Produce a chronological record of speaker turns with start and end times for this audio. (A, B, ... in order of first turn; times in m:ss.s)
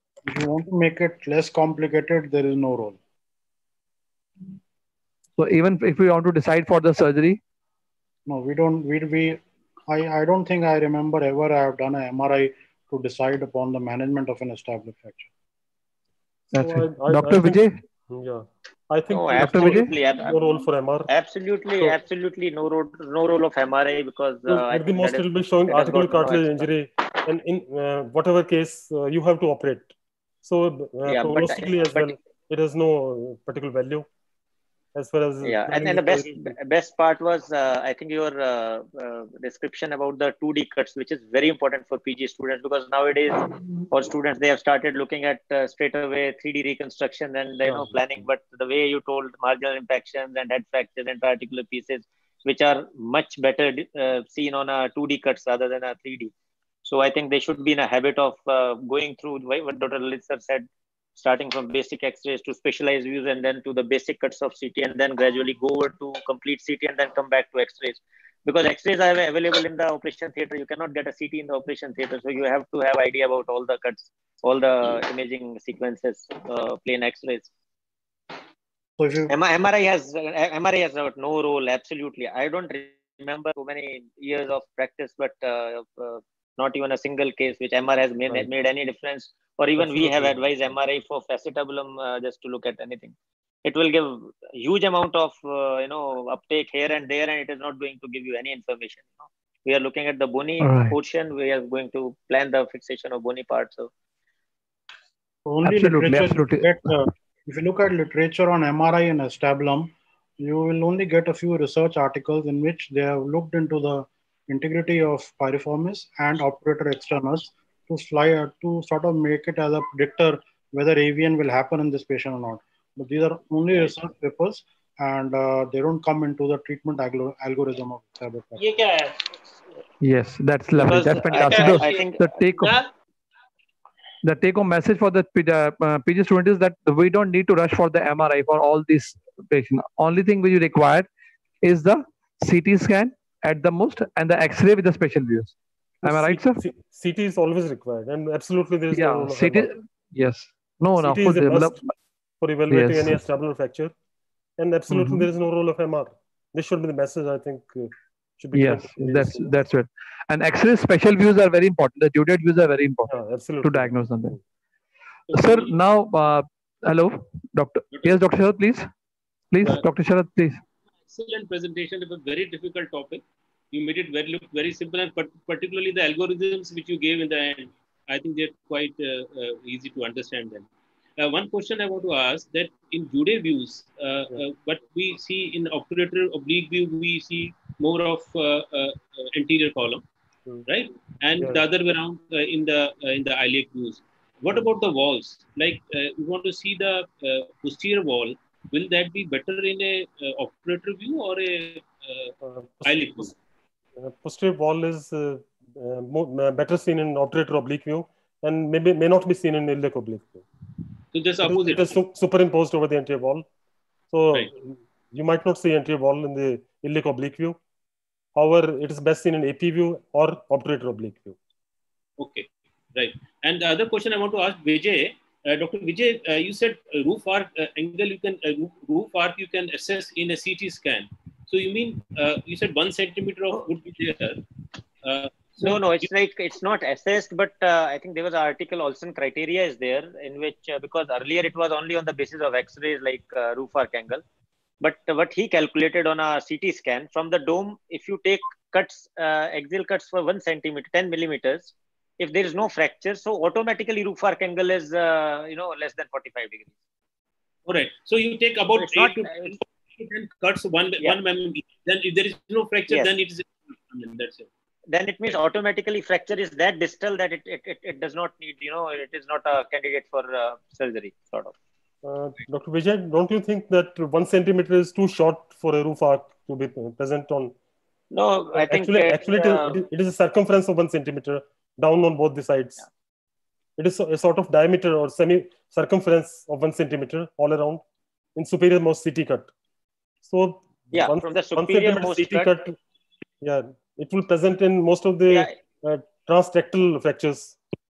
0:00.2-0:03.0 A
0:05.4-0:07.4 B
0:08.2-0:15.3 A
0:16.5-0:21.1 C
0:16.5-0:17.8 B
0:19.1-0:26.7 D
0:19.4-0:19.9 B
0:24.5-0:29.9 C
0:30.4-0:34.1 C
0:31.1-0:32.1 D
0:34.9-0:36.5 C
0:35.4-0:56.3 D
0:56.8-1:17.5 D
1:19.0-1:19.3 A
1:19.3-1:33.1 D
1:29.8-1:30.7 C
1:33.6-1:43.9 D
1:40.6-1:41.0 B
1:45.4-2:08.6 A
1:45.6-1:46.9 B
2:08.6-2:09.2 E
2:10.0-2:12.7 B
2:10.8-2:12.7 D
2:11.3-2:12.0 E
2:14.2-2:21.1 B
2:21.6-2:26.6 B
2:26.0-2:29.7 C
2:28.9-2:31.9 B
2:31.0-2:31.8 C
2:32.4-2:33.9 C
2:32.7-2:33.2 B
2:34.6-2:39.6 C
2:34.9-2:35.3 B
2:38.5-2:44.4 B
2:43.1-2:44.4 C
2:45.3-2:45.7 E
2:45.3-2:48.9 B
2:47.9-2:48.2 E
2:49.5-2:50.6 B
2:51.1-3:10.0 E
3:10.6-3:23.3 E
3:22.4-3:23.3 C
3:24.0-3:30.4 C
3:31.1-3:32.0 E
3:31.4-3:33.4 C
3:34.1-3:37.6 C
3:38.3-3:41.4 C
3:42.2-3:54.4 E
3:55.0-3:56.1 E
3:55.6-4:04.2 D
4:04.8-4:16.7 D
4:17.6-4:24.5 E
4:18.7-4:19.6 D
4:22.9-4:23.1 D
4:24.9-4:31.5 D
4:32.0-4:37.5 C
4:38.1-4:39.8 D
4:38.5-4:42.8 C
4:43.8-4:47.8 C
4:48.3-4:49.5 C
4:50.2-4:52.8 C
4:50.9-4:52.5 D
4:53.4-4:57.6 C
4:55.3-4:55.5 D